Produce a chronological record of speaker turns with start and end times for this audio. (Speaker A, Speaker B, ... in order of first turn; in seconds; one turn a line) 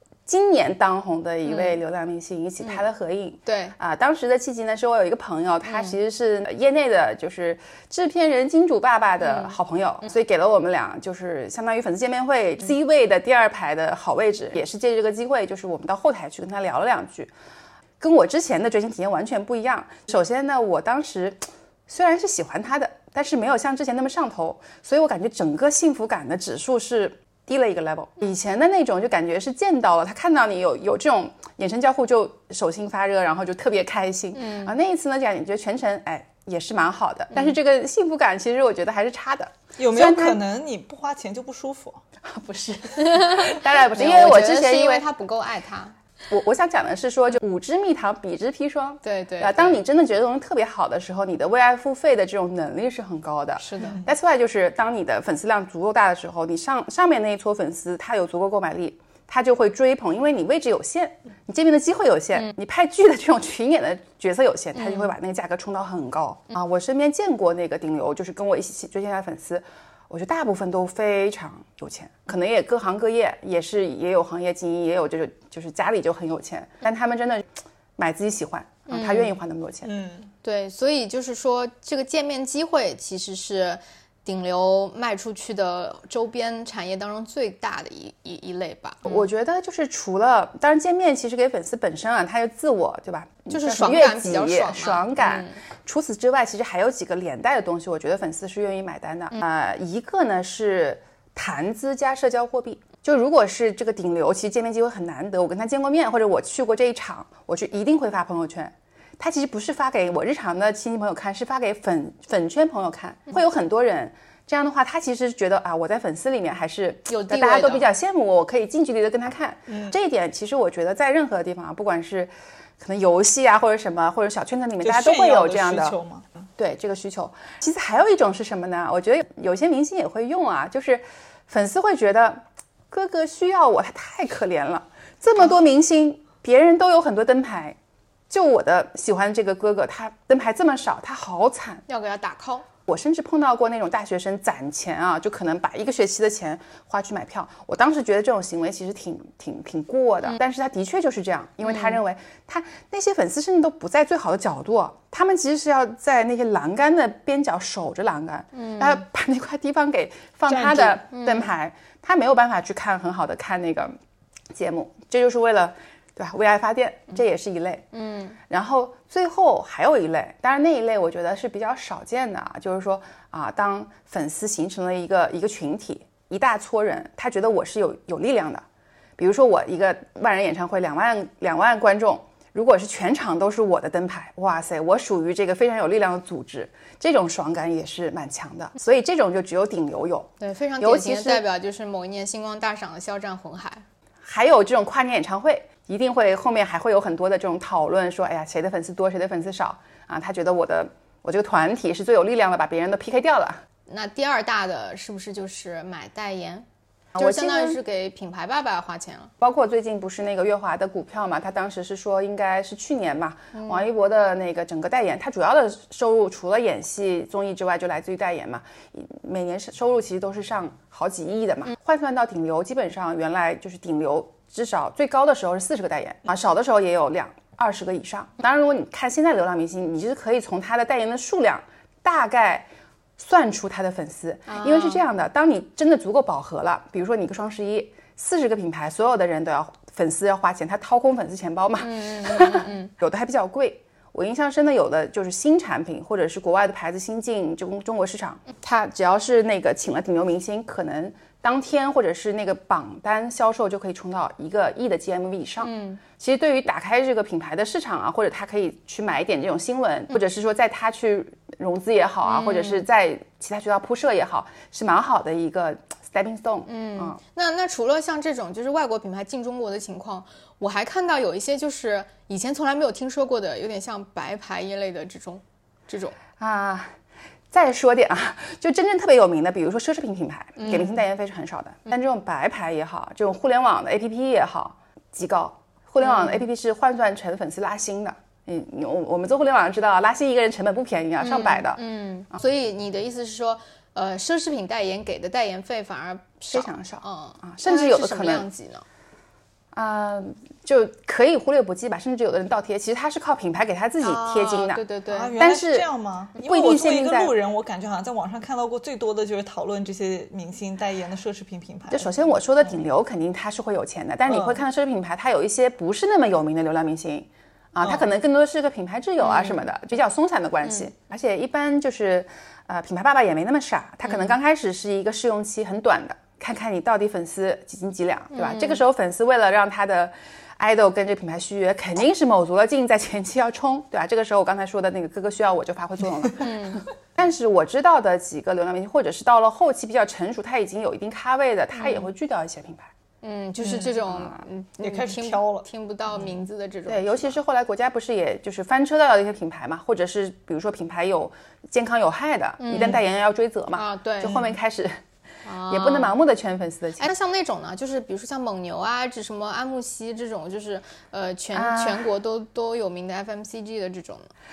Speaker A: 0.2-17.3
Speaker B: 1.4-1.8
Speaker B: 3.5-3.7
Speaker B: 5.7-5.9
Speaker B: 9.2-9.6
Speaker A: 18.0-40.4
Speaker B: 34.3-34.7
Speaker C: 39.8-42.0
Speaker A: 42.2-45.0
Speaker B: 43.0-45.9
Speaker A: 46.3-79.9
Speaker B: 49.0-49.8
Speaker B: 53.6-54.0
Speaker B: 64.7-65.1
Speaker B: 78.9-79.3
Speaker C: 79.8-80.3
Speaker B: 80.4-89.3
Speaker A: 89.0-126.0
Speaker B: 93.5-95.6
Speaker B: 117.1-117.8
Speaker C: 119.7-120.0
Speaker C: 124.8-126.4
Speaker A: 126.6-137.8
Speaker A: 138.3-141.8
Speaker B: 141.9-142.7
Speaker A: 142.9-163.9
Speaker B: 151.6-152.0
Speaker B: 158.5-159.0
Speaker C: 160.5-161.0
Speaker B: 161.1-161.5
Speaker A: 164.5-167.8
Speaker B: 167.9-168.4
Speaker A: 168.5-178.6
Speaker A: 179.2-191.4
Speaker B: 190.4-193.8
Speaker A: 194.2-203.6
Speaker B: 203.9-206.7
Speaker A: 207.1-207.8
Speaker B: 207.2-209.3
Speaker A: 209.4-267.2
Speaker B: 213.5-213.9
Speaker B: 234.5-235.0
Speaker B: 241.8-242.9
Speaker B: 255.6-256.0
Speaker B: 262.2-262.8
Speaker B: 266.6-276.2
Speaker A: 276.4-276.9
Speaker A: 277.5-291.8
Speaker B: 280.6-281.0
Speaker B: 286.0-286.4
Speaker B: 291.2-298.8
Speaker A: 296.5-298.5
Speaker A: 299.7-304.8
Speaker B: 304.0-305.4
Speaker C: 305.1-312.3
Speaker A: 305.4-305.9
Speaker A: 306.4-307.3
Speaker A: 311.9-342.9
Speaker C: 314.3-314.6
Speaker C: 317.8-318.1
Speaker B: 319.2-319.6
Speaker B: 324.0-324.3
Speaker B: 328.3-328.8
Speaker B: 336.4-336.8
Speaker B: 341.7-342.1
Speaker B: 343.2-347.4
Speaker C: 343.6-344.0
Speaker A: 344.1-344.4
Speaker C: 344.8-345.7
Speaker A: 346.9-355.0
Speaker B: 352.6-353.0
Speaker B: 353.7-354.4
Speaker C: 354.2-354.5
Speaker B: 355.4-356.1
Speaker A: 355.7-357.1
Speaker B: 357.0-364.3
Speaker A: 361.5-362.1